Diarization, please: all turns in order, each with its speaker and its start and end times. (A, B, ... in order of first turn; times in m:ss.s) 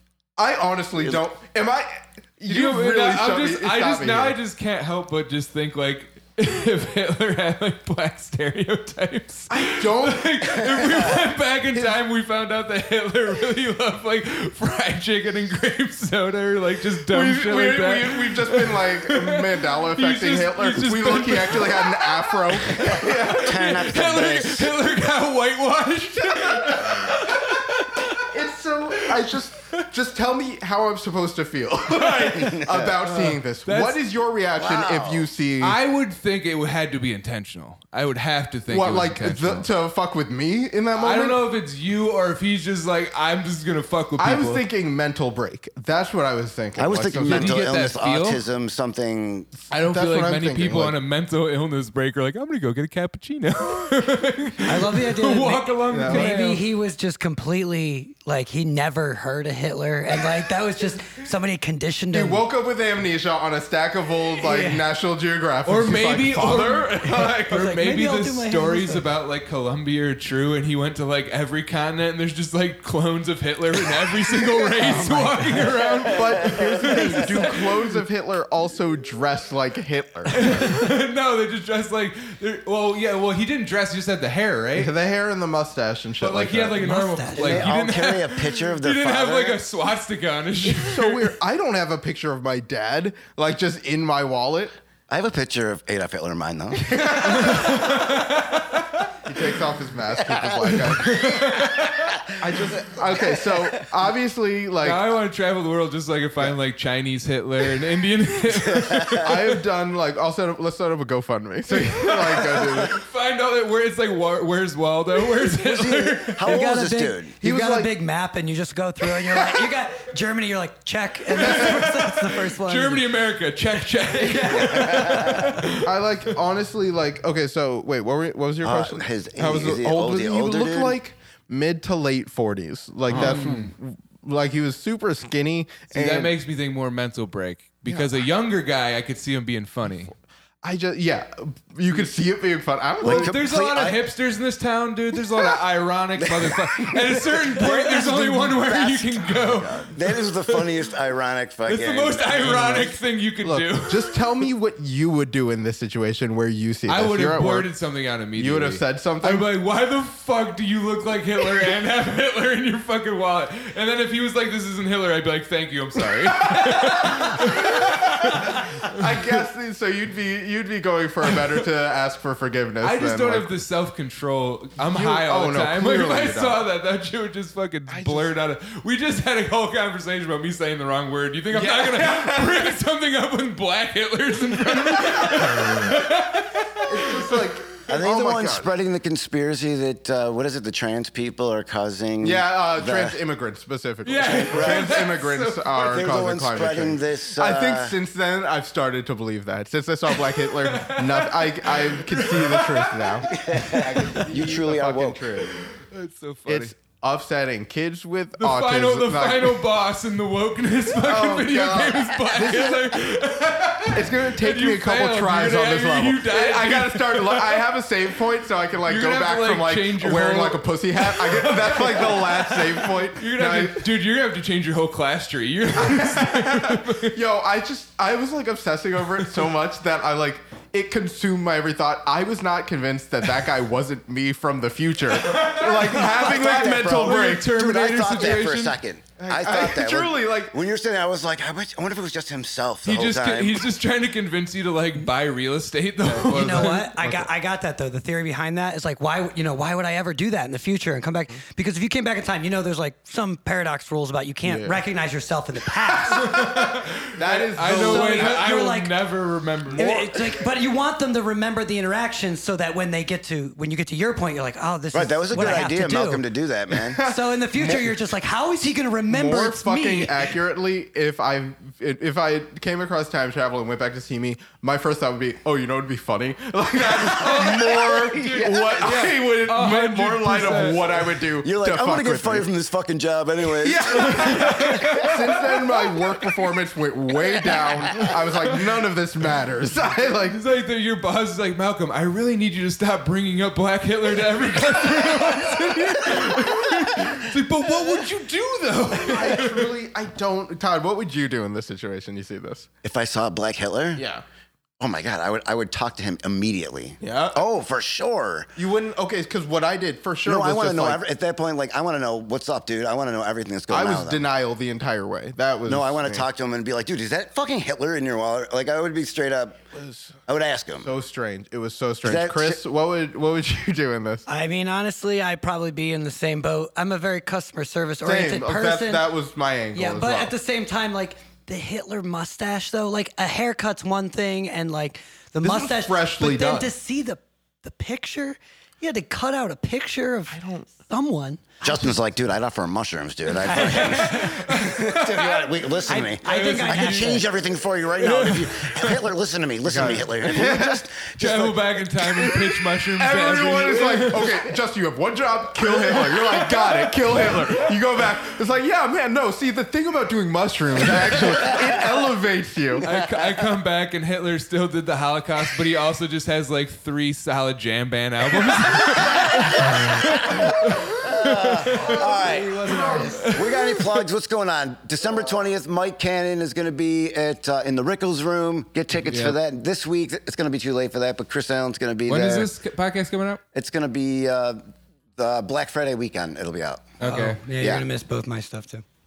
0:00.4-0:04.4 A
0:02.5-0:28.2 B
0:09.5-0:11.2 A
0:17.1-0:23.7 A
0:23.0-0:24.8 C
0:26.2-0:27.6 A
0:28.1-0:35.8 A
0:32.0-0:34.0 B
0:32.4-0:32.9 C
0:34.6-0:35.3 C
0:35.6-0:39.7 B
0:38.7-0:41.4 A
0:41.0-0:44.6 B
0:44.2-0:47.7 A
0:46.8-0:49.5 C
0:47.2-0:48.4 B
0:49.7-0:51.0 A
0:49.7-0:56.7 B
0:54.6-1:02.5 D
0:55.9-0:56.3 A
1:02.1-1:07.5 A
1:04.4-1:04.9 D
1:05.6-1:17.7 B
1:07.2-1:09.1 D
1:14.3-1:17.5 D
1:16.1-1:20.7 A
1:20.3-1:24.9 B
1:24.8-1:26.8 A
1:26.2-1:31.3 B
1:26.8-1:27.7 D
1:27.4-1:29.6 C
1:30.6-1:34.8 A
1:35.1-1:37.8 C
1:36.8-1:37.8 A
1:37.2-1:39.1 B
1:39.2-1:41.4 A
1:40.3-1:40.6 C
1:40.8-1:42.2 B
1:41.1-1:43.7 C
1:42.4-1:45.1 A
1:44.8-1:49.6 B
1:48.6-1:49.3 C
1:49.2-1:53.0 A
1:51.7-1:56.6 B
1:55.5-1:57.3 C
1:56.4-2:03.1 D
1:57.4-1:57.9 A
2:01.3-2:05.9 B
2:04.2-2:05.5 D
2:04.5-2:05.6 C
2:05.8-2:16.3 A
2:08.6-2:11.0 C
2:13.1-2:13.7 B
2:15.9-2:20.1 B
2:20.6-2:23.4 A
2:23.0-2:24.1 C
2:23.0-2:30.8 B
2:26.2-2:32.9 C
2:29.4-2:29.9 A
2:31.7-2:34.2 B
2:32.4-2:32.9 A
2:33.4-2:37.7 A
2:36.9-2:49.0 B
2:38.4-2:39.5 A
2:46.9-2:53.6 A
2:52.8-3:07.4 B
2:54.8-2:56.6 A
2:57.9-2:58.3 A
3:01.5-3:02.7 A
3:04.9-3:06.0 A
3:06.8-3:08.7 A
3:07.9-3:13.2 C
3:12.2-3:25.6 A
3:14.0-3:16.0 B
3:14.3-3:15.0 C
3:15.8-3:18.0 C
3:20.2-3:24.2 B
3:23.3-3:25.4 C
3:25.6-3:26.7 B
3:26.5-3:29.6 A
3:28.4-3:37.6 B
3:31.0-3:32.8 A
3:33.9-3:43.9 A
3:38.8-3:47.2 B
3:45.8-3:57.5 A
3:55.3-3:58.8 B
3:55.8-4:03.7 C
3:59.2-4:00.6 A
4:02.8-4:06.9 B
4:06.3-4:07.3 A
4:06.3-4:16.8 D
4:14.4-4:14.8 A
4:16.1-4:20.0 B
4:17.2-4:18.5 A
4:17.7-4:18.9 D
4:19.7-4:26.2 D
4:19.8-4:20.4 A
4:24.9-4:27.0 C
4:26.8-4:28.0 A
4:27.0-4:30.3 D
4:29.1-4:42.5 A
4:37.0-4:40.9 B
4:38.0-4:38.9 C
4:40.8-4:45.1 C
4:43.6-4:50.4 A
4:43.9-4:45.8 B
4:50.3-4:59.7 B
4:59.0-5:02.7 A
5:02.8-5:04.0 C
5:04.0-5:04.2 A
5:04.8-5:08.5 C
5:07.0-5:07.4 A
5:08.6-5:11.0 A
5:10.2-5:14.2 C
5:13.7-5:16.3 A
5:15.7-5:19.6 C
5:19.7-5:20.2 A
5:20.3-5:20.9 C
5:20.8-5:24.3 A
5:22.0-5:22.6 C
5:24.3-5:29.1 D
5:28.0-5:30.3 A
5:29.7-5:41.9 D
5:35.4-5:36.7 A
5:40.3-5:40.7 A
5:41.6-5:51.8 C
5:43.4-5:45.3 D
5:43.6-5:47.3 B
5:45.8-5:47.3 D
5:48.0-5:49.1 B
5:49.6-5:50.8 A
5:51.2-5:54.4 B
5:52.2-6:02.8 A
5:55.6-5:57.7 B
6:01.0-6:01.4 B
6:02.8-6:03.5 C
6:02.8-6:12.1 B
6:09.0-6:22.5 C
6:11.7-6:13.4 D
6:11.7-6:13.2 A
6:12.8-6:14.0 B
6:19.1-6:19.4 B
6:22.1-6:23.4 B
6:23.5-6:24.6 C
6:25.2-6:26.9 C
6:27.0-6:27.4 B
6:27.0-6:28.8 D
6:27.6-6:27.8 C